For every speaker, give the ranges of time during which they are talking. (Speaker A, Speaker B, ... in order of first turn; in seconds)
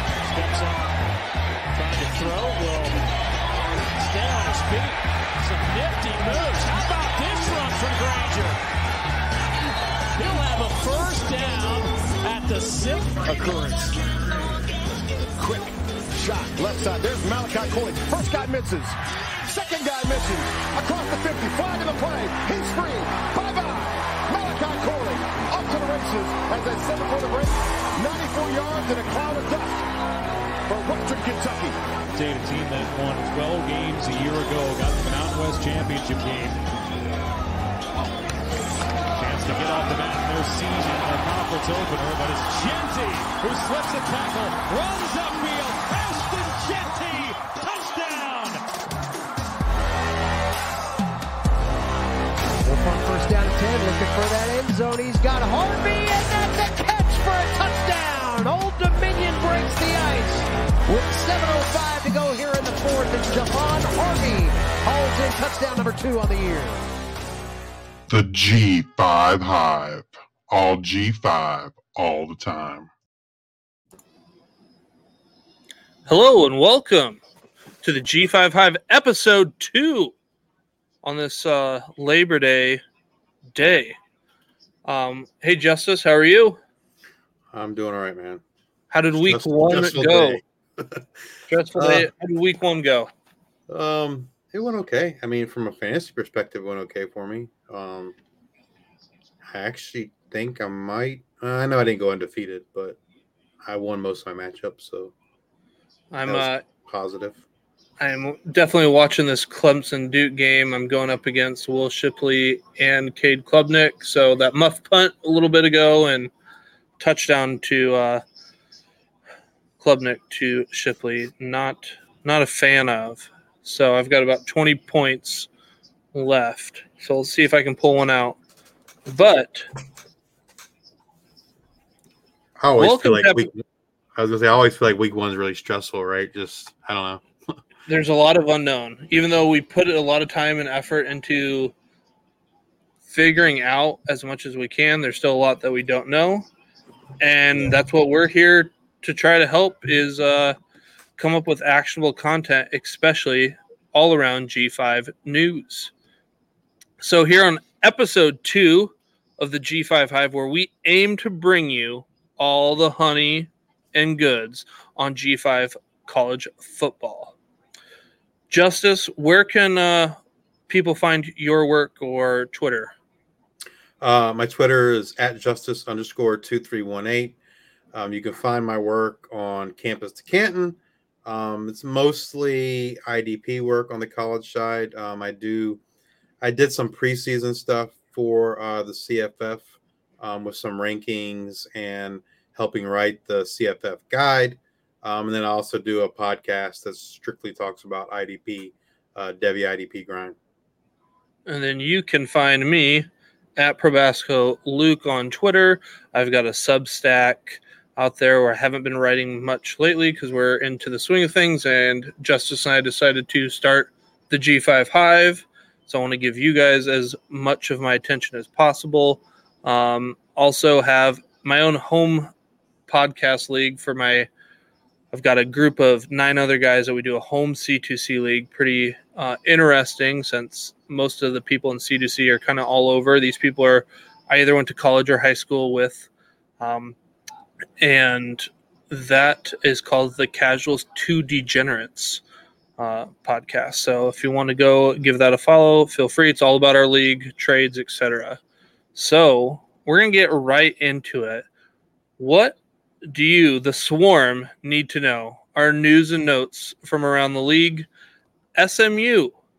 Speaker A: 0.2-0.9, 1.7-3.0, 3.9-8.6, 10.2-13.8, 32.1-36.6, 39.2-48.6
Speaker B: 13.2-13.9, 15.4-29.8, 30.7-31.8
Speaker C: 52.6-66.8
Speaker D: 68.1-72.9
Speaker E: 76.1-77.2, 77.8-80.1, 81.0-82.8, 83.5-84.0, 84.9-86.6, 88.9-90.4, 91.5-93.1, 106.1-106.6, 108.0-116.3, 117.0-118.2, 119.8-125.5, 126.1-128.4, 129.1-129.7, 132.8-133.5, 137.9-141.7, 143.1-146.5, 147.2-150.6, 151.2-155.9, 157.0-167.3, 168.5-170.2, 170.7-172.9, 201.5-222.3, 222.9-224.3, 225.1-236.1, 236.6-237.0, 237.8-242.2, 242.8-248.4, 248.9-251.5, 252.2-257.9, 258.6-259.4
Speaker F: 87.5-88.4, 89.2-91.0, 91.8-92.1, 93.7-98.2, 99.5-103.0, 103.6-105.1, 106.3-107.4, 132.6-133.6, 134.2-137.2, 174.0-177.4, 177.9-185.8, 186.4-200.4